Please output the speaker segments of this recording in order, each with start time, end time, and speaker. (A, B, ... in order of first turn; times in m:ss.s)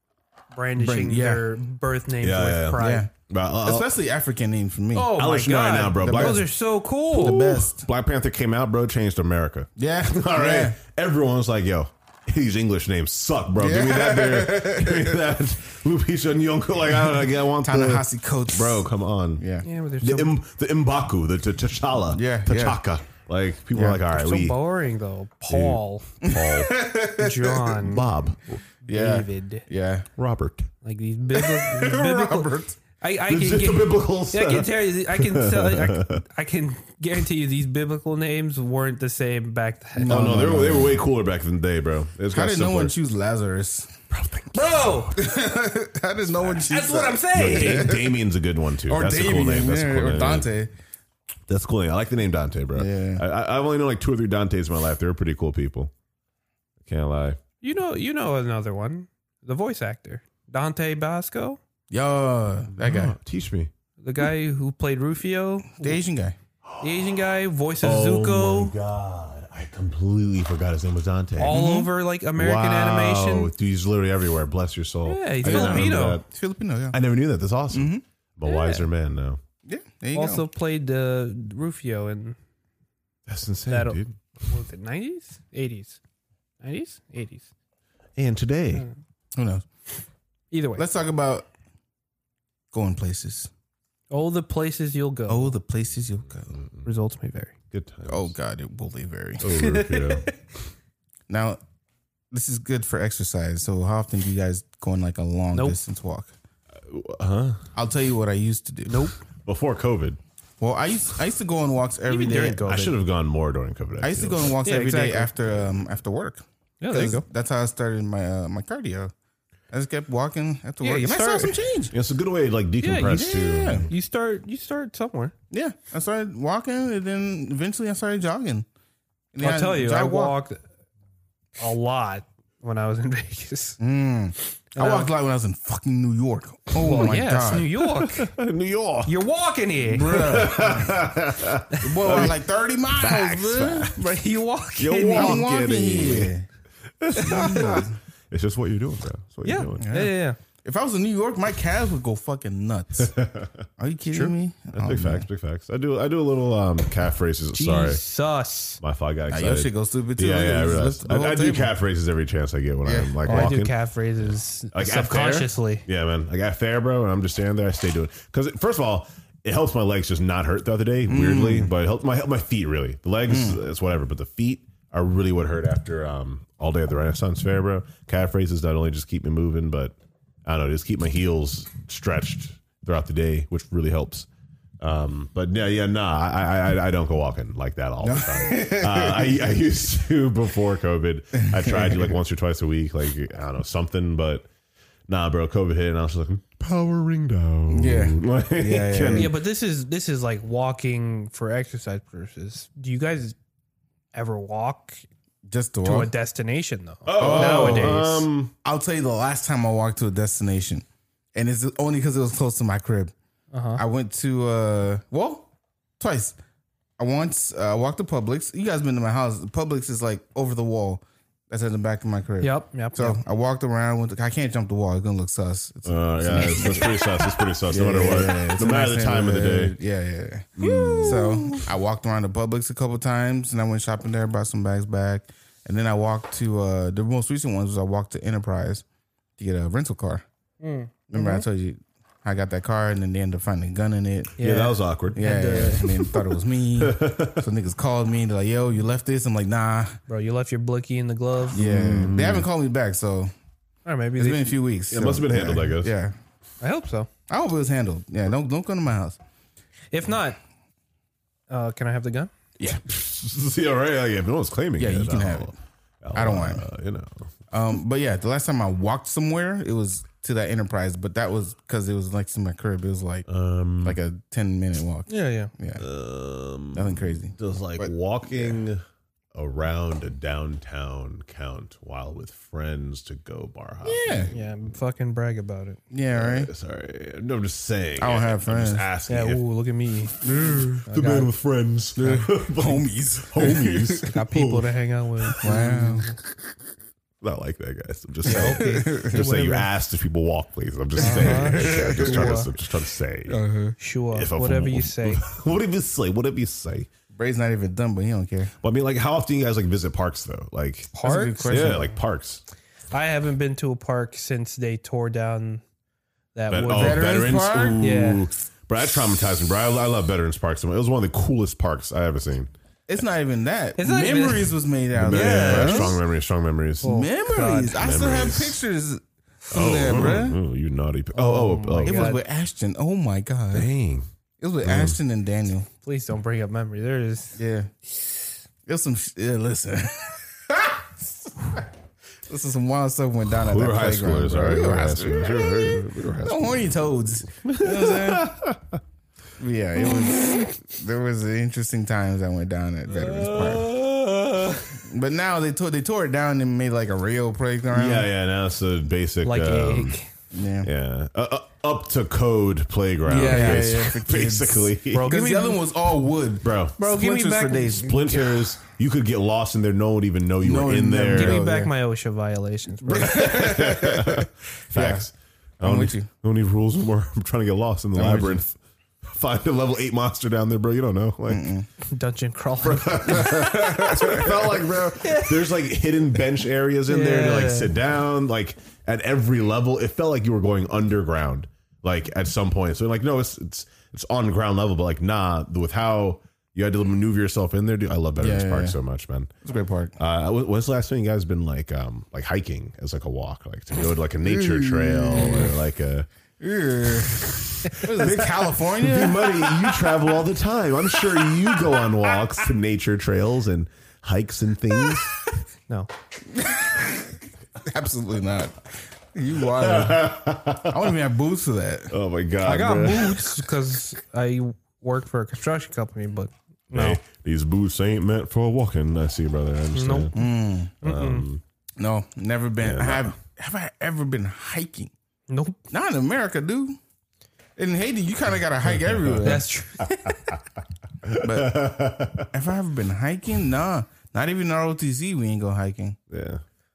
0:00.5-0:03.1 A
0:00.8-0:01.5 B
0:02.2-0:03.9 C
0:02.8-0:03.1 B
0:03.6-0:05.2 B
0:04.9-0:07.4 A
0:05.1-0:06.4 C
0:05.9-0:06.5 B
0:07.1-0:07.8 B
0:07.1-0:19.4 C
0:09.8-0:10.8 B
0:13.6-0:15.2 B
0:17.6-0:18.9 B
0:19.4-0:19.6 B
0:19.6-0:20.4 A
0:20.0-0:24.6 C
0:22.1-0:22.8 B
0:23.7-0:24.0 B
0:24.1-0:26.1 A
0:25.5-0:26.7 C
0:26.2-0:27.6 B
0:27.0-0:28.1 A
0:27.8-0:28.6 C
0:28.8-0:29.6 A
0:28.9-0:30.1 B
0:30.2-0:30.7 C
0:30.8-0:40.3 A
0:31.3-0:32.7 B
0:33.3-0:36.2 C
0:40.0-0:41.0 B
0:40.0-0:42.9 C
0:42.3-0:44.0 B
0:44.1-0:45.1 C
0:44.5-0:45.2 A
0:45.1-0:48.1 B
0:46.5-0:48.0 A
0:47.3-0:50.5 C
0:48.8-0:50.7 B
0:51.5-0:55.9 C
0:52.7-0:53.2 B
0:56.8-0:57.4 C
0:57.6-1:01.6 A
1:01.9-1:03.1 B
1:02.8-1:03.7 C
1:04.0-1:06.0 A
1:05.8-1:06.4 B
1:06.6-1:07.1 C
1:06.8-1:08.7 A
1:07.8-1:11.6 C
1:11.4-1:13.5 A
1:11.5-1:11.9 B
1:12.4-1:16.2 C
1:15.0-1:16.2 A
1:15.4-1:17.0 B
1:16.9-1:19.4 C
1:17.7-1:18.0 B
1:18.4-1:18.8 A
1:19.6-1:20.4 B
1:20.1-1:22.4 A
1:23.3-1:24.2 C
1:23.7-1:26.0 A
1:26.6-1:27.5 A
1:28.2-1:28.9 C
1:29.3-1:29.6 B
1:30.5-1:30.8 A
1:30.8-1:31.5 B
1:32.7-1:33.5 B
1:34.1-1:35.5 A
1:35.3-1:36.6 B
1:36.5-1:36.8 C
1:36.8-1:37.5 A
1:37.7-1:38.3 C
1:38.1-1:39.5 B
1:39.4-1:40.3 C
1:39.5-1:40.4 A
1:41.3-1:41.6 B
1:42.3-1:46.3 B
1:46.8-1:47.7 C
1:47.7-1:49.0 B
1:48.9-1:49.2 A
1:49.4-1:50.2 C
1:50.6-1:52.9 B
1:52.1-1:52.9 A
1:52.6-1:54.6 C
1:54.0-1:59.1 B
1:54.6-1:55.3 A
1:56.8-1:57.2 A
1:59.7-2:01.9 B
2:00.8-2:01.6 A
2:01.9-2:03.9 C
2:02.8-2:05.3 A
2:03.1-2:03.9 B
2:05.5-2:08.6 B
2:09.3-2:10.4 B
2:09.4-2:10.6 A
2:11.6-2:13.8 A
2:13.8-2:17.7 B
2:14.7-2:15.1 A
2:16.7-2:18.3 A
2:17.9-2:19.1 C
2:19.0-2:20.4 A
2:19.9-2:21.0 B
2:20.2-2:22.4 C
2:21.8-2:24.0 B
2:22.9-2:24.0 C
2:23.9-2:25.4 A
2:24.8-2:26.3 C
2:25.1-2:26.4 B
2:27.0-2:29.9 C
2:27.2-2:27.8 A
2:27.2-2:28.0 B
2:29.4-2:30.4 A
2:29.8-2:33.1 B
2:33.0-2:33.6 C
2:33.8-2:35.3 B
2:34.7-2:38.0 C
2:37.5-2:38.8 A
2:38.8-2:43.7 C
2:39.3-2:41.7 B
2:42.8-2:43.5 B
2:43.2-2:45.8 A
2:44.2-3:04.3 C
2:51.1-2:51.7 B
2:53.3-2:53.6 B
3:04.8-3:14.5 C
3:08.0-3:09.4 B
3:11.4-3:12.1 B
3:15.1-3:19.3 C
3:17.7-3:19.4 B
3:19.1-3:23.4 A
3:24.1-3:25.0 A
3:25.5-3:26.1 B
3:25.8-3:28.2 A
3:27.0-3:28.5 C
3:27.2-3:28.1 B
3:28.6-3:33.1 B
3:33.5-3:33.8 A
3:33.8-3:35.5 B
3:36.0-3:36.4 B
3:37.0-3:58.8 B
3:42.4-3:43.2 A
3:45.8-3:49.8 C
3:50.6-3:51.6 C
3:50.6-3:51.3 A
3:59.4-4:00.2 B
4:00.6-4:01.4 A
4:01.1-4:04.3 B
4:04.4-4:05.2 C
4:04.4-4:05.9 A
4:05.1-4:10.0 B
4:05.8-4:06.2 C
4:06.8-4:07.4 C
4:10.1-4:11.6 A
4:11.5-4:13.3 B
4:11.5-4:12.5 C
4:13.8-4:14.6 A
4:14.2-4:16.1 B
4:14.9-4:15.9 C
4:16.6-4:17.1 A
4:17.3-4:19.2 B
4:19.9-4:20.4 A
4:21.5-4:22.3 A
4:22.6-4:27.3 C
4:24.8-4:25.5 B
4:26.1-4:26.6 B
4:27.5-4:33.3 B
4:33.3-4:34.0 C
4:33.8-4:35.8 B
4:35.1-4:35.5 A
4:35.8-4:38.8 C
4:36.7-4:38.6 B
4:39.3-4:44.5 C
4:43.8-4:44.3 B
4:44.3-4:45.8 A
4:45.9-4:46.5 B
4:46.1-4:49.4 C
4:48.0-4:48.8 B
4:49.1-4:51.3 A
4:50.2-4:50.8 B
4:50.8-4:54.6 C
4:52.0-4:54.2 B
4:54.1-4:56.2 A
4:55.4-4:56.1 B
4:57.2-5:03.4 C
4:58.2-4:59.2 B
4:58.2-4:59.7 A
5:01.0-5:02.5 A
5:01.0-5:02.5 B
5:03.3-5:03.8 B
5:03.8-5:05.2 A
5:04.1-5:06.9 C
5:07.1-5:08.5 B
5:08.6-5:10.9 C
5:10.9-5:11.6 A
5:11.0-5:11.9 B
5:11.4-5:12.4 C
5:12.9-5:15.6 A
5:16.3-5:18.3 A
5:16.5-5:22.5 C
5:16.7-5:17.8 B
5:22.9-5:26.0 B
5:23.8-5:24.6 A
5:24.9-5:27.0 C
5:25.1-5:26.0 A
5:26.8-5:27.7 A
5:26.8-5:30.4 B
5:27.7-5:28.6 C
5:29.5-5:32.1 C
5:31.2-5:32.2 A
5:31.8-5:33.7 B
5:33.5-5:34.1 C
5:34.4-5:35.7 B
5:34.6-5:35.0 C
5:35.8-5:37.4 A
5:37.4-5:37.7 B
5:38.6-5:41.6 B
5:42.3-5:48.3 B
5:43.3-5:46.8 C
5:47.4-5:48.8 C
5:49.4-5:53.8 B
5:53.0-5:54.5 C
5:54.3-5:54.6 A
5:54.8-5:58.1 B
5:57.7-6:00.0 C
5:59.2-6:00.1 A
6:00.3-6:00.7 B
6:00.6-6:05.2 C
6:03.0-6:08.0 B
6:04.9-6:05.6 A
6:06.4-6:06.8 C
6:06.8-6:08.2 A
6:07.8-6:11.4 C
6:10.4-6:11.7 B
6:11.1-6:13.4 A
6:12.8-6:21.5 C
6:12.9-6:15.1 B
6:15.6-6:16.1 B
6:17.9-6:18.4 B
6:21.3-6:21.7 B
6:21.8-6:24.0 A
6:22.6-6:39.3 C
6:23.3-6:24.4 B
6:25.0-6:25.4 A
6:26.9-6:27.7 A
6:38.2-6:38.8 B
6:39.4-6:40.0 B
6:40.0-6:46.1 C
6:44.2-6:45.5 B
6:46.4-6:50.1 B
6:47.1-6:55.2 C
6:51.0-6:51.7 B
6:56.3-7:02.0 B
6:59.4-7:01.0 C
7:01.9-7:03.2 C
7:02.4-7:07.0 A
7:06.7-7:10.2 C
7:09.7-7:11.2 A
7:10.1-7:10.7 B
7:10.8-7:11.4 C
7:11.8-7:14.9 B
7:12.6-7:13.1 C
7:15.3-7:15.6 A
7:15.7-7:16.8 B
7:17.6-7:20.1 B
7:18.7-7:19.3 C
7:19.2-7:20.2 A
7:21.0-7:22.3 C
7:21.1-7:26.0 B
7:26.1-7:26.4 C